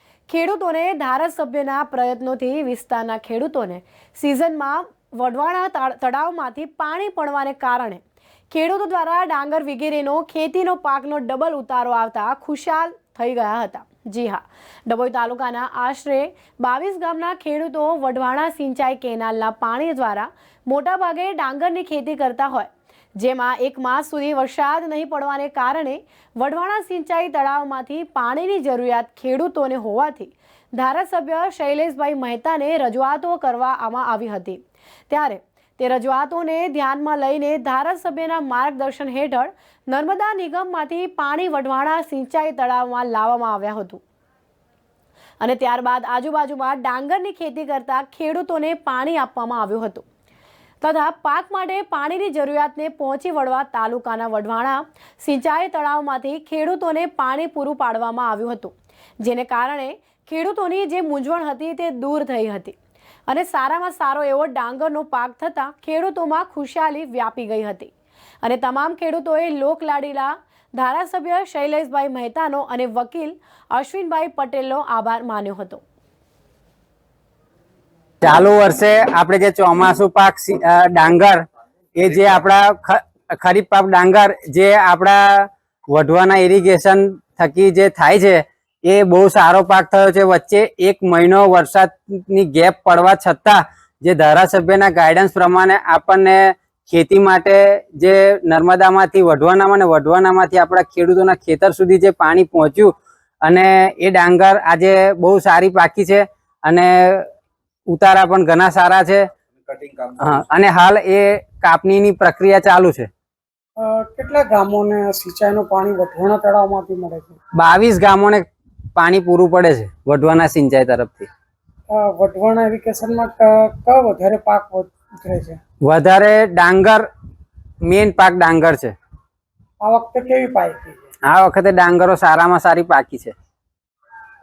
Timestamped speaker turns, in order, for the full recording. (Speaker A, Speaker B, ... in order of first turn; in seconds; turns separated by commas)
Speaker A: 0.3-44.0, Speaker A: 45.4-50.0, Speaker A: 50.8-62.8, Speaker A: 63.3-75.8, Speaker B: 78.2-81.4, Speaker B: 82.0-107.2, Speaker B: 107.9-109.2, Speaker B: 110.2-113.1, Speaker C: 113.8-117.3, Speaker B: 117.6-118.4, Speaker B: 119.0-121.3, Speaker C: 121.9-125.6, Speaker B: 125.8-127.0, Speaker B: 127.8-128.9, Speaker C: 129.8-131.0, Speaker B: 131.2-133.3